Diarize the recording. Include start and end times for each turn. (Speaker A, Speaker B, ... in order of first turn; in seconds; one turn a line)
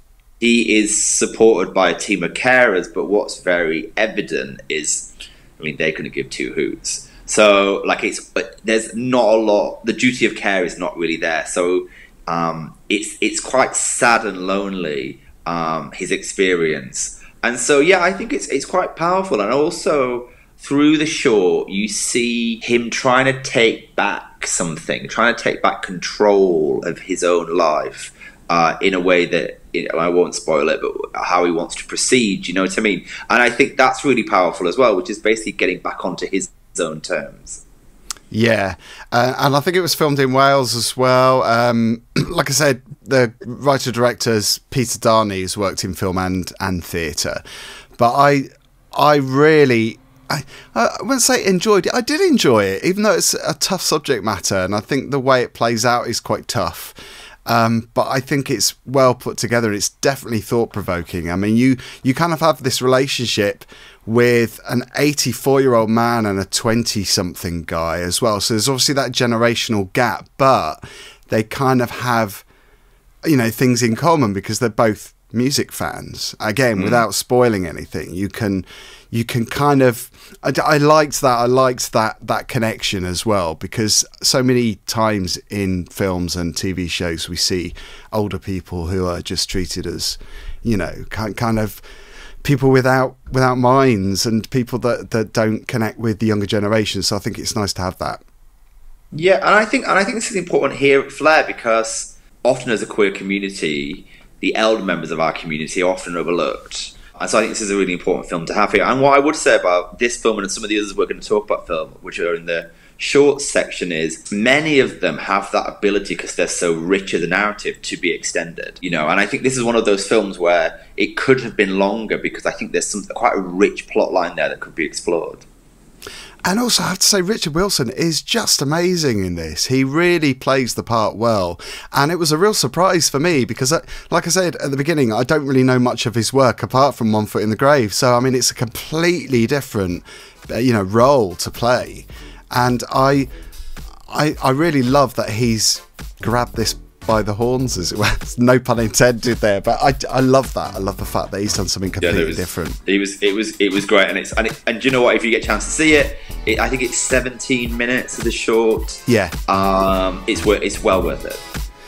Speaker A: 0.4-37.6
Speaker B: 38.3-47.4
Speaker B: 48.0-72.5
Speaker B: 73.2-91.8
Speaker A: 76.8-77.0
Speaker B: 92.4-98.2
Speaker A: 99.1-125.4
Speaker B: 126.4-143.3
Speaker B: 144.1-152.8
Speaker A: 152.0-161.4
Speaker B: 159.1-159.3